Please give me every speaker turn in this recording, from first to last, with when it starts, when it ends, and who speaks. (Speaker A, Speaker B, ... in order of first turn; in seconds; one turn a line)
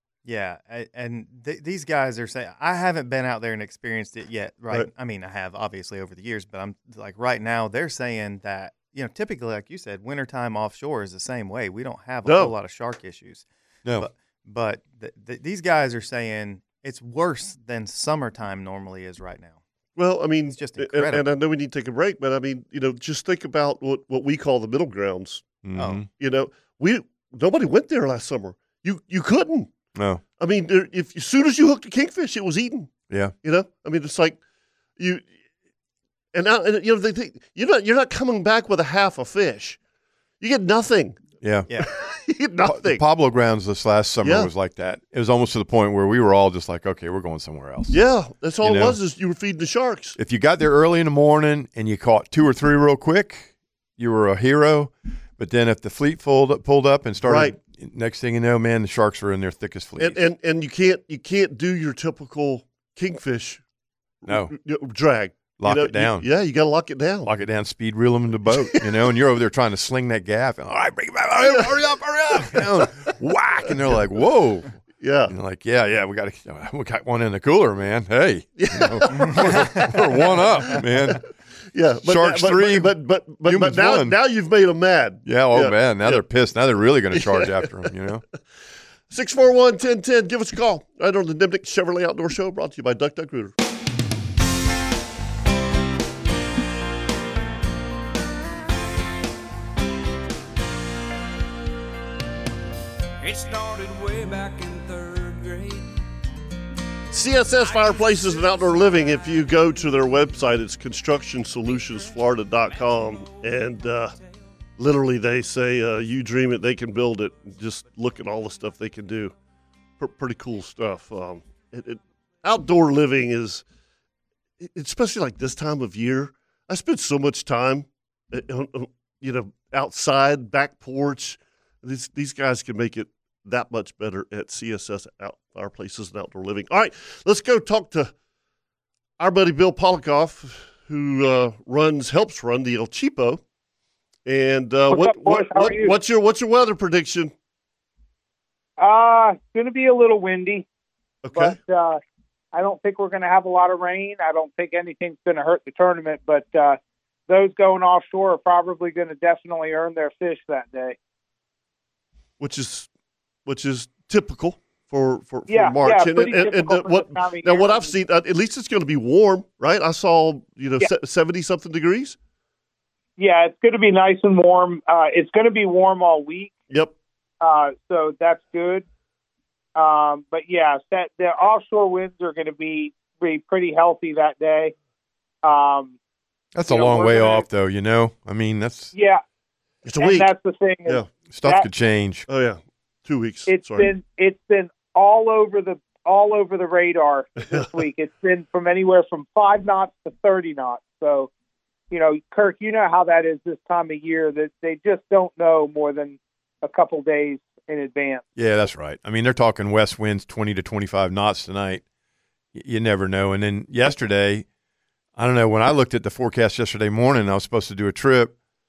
Speaker A: 0.2-13.4
Speaker B: 12.2-12.5
Speaker A: 13.9-19.6
Speaker B: 19.9-25.6
Speaker A: 20.5-21.2
Speaker C: 25.6-26.1
Speaker A: 25.7-26.0
Speaker B: 26.1-29.7
Speaker C: 29.9-30.2
Speaker B: 30.4-34.4
Speaker C: 33.1-33.3
Speaker B: 35.0-35.3
Speaker B: 36.3-39.8
Speaker B: 40.4-41.2
Speaker C: 41.4-41.7
Speaker B: 41.9-43.0
Speaker C: 42.6-48.0
Speaker B: 44.2-44.5
Speaker B: 47.9-50.2
Speaker C: 48.6-49.0
Speaker C: 50.2-60.2
Speaker B: 57.2-57.5
Speaker B: 60.0-63.6
Speaker B: 64.2-67.3
Speaker C: 64.2-64.5
Speaker C: 65.6-66.3
Speaker C: 67.2-74.7
Speaker B: 68.5-68.8
Speaker B: 72.5-72.9
Speaker B: 75.0-75.3
Speaker C: 75.2-81.2
Speaker B: 78.6-81.2
Speaker B: 81.7-86.2
Speaker C: 82.0-84.2
Speaker C: 85.2-88.2
Speaker B: 87.1-87.9
Speaker B: 89.1-93.5
Speaker D: 103.2-105.9
Speaker B: 107.1-114.1
Speaker D: 107.7-108.0
Speaker B: 114.8-119.3
Speaker B: 120.0-123.6
Speaker B: 124.6-138.1
Speaker B: 139.2-143.4
Speaker B: 144.2-147.3
Speaker E: 144.9-146.0
Speaker E: 148.8-150.7
Speaker B: 151.2-151.6
Speaker E: 151.3-152.0
Speaker E: 152.5-160.9
Speaker B: 162.4-162.9
Speaker B: 163.4-172.2
Speaker E: 165.5-167.9
Speaker E: 173.2-176.6
Speaker E: 177.4-178.8
Speaker E: 179.8-184.7
Speaker E: 185.4-185.9
Speaker C: 186.5-188.9
Speaker E: 186.7-187.4
Speaker E: 188.9-189.2
Speaker B: 189.8-190.3
Speaker E: 190.0-191.7
Speaker C: 191.3-192.3
Speaker B: 192.3-193.9
Speaker E: 193.5-201.3
Speaker E: 201.9-208.2
Speaker C: 208.3-211.8
Speaker C: 212.5-214.4
Speaker C: 215.2-218.3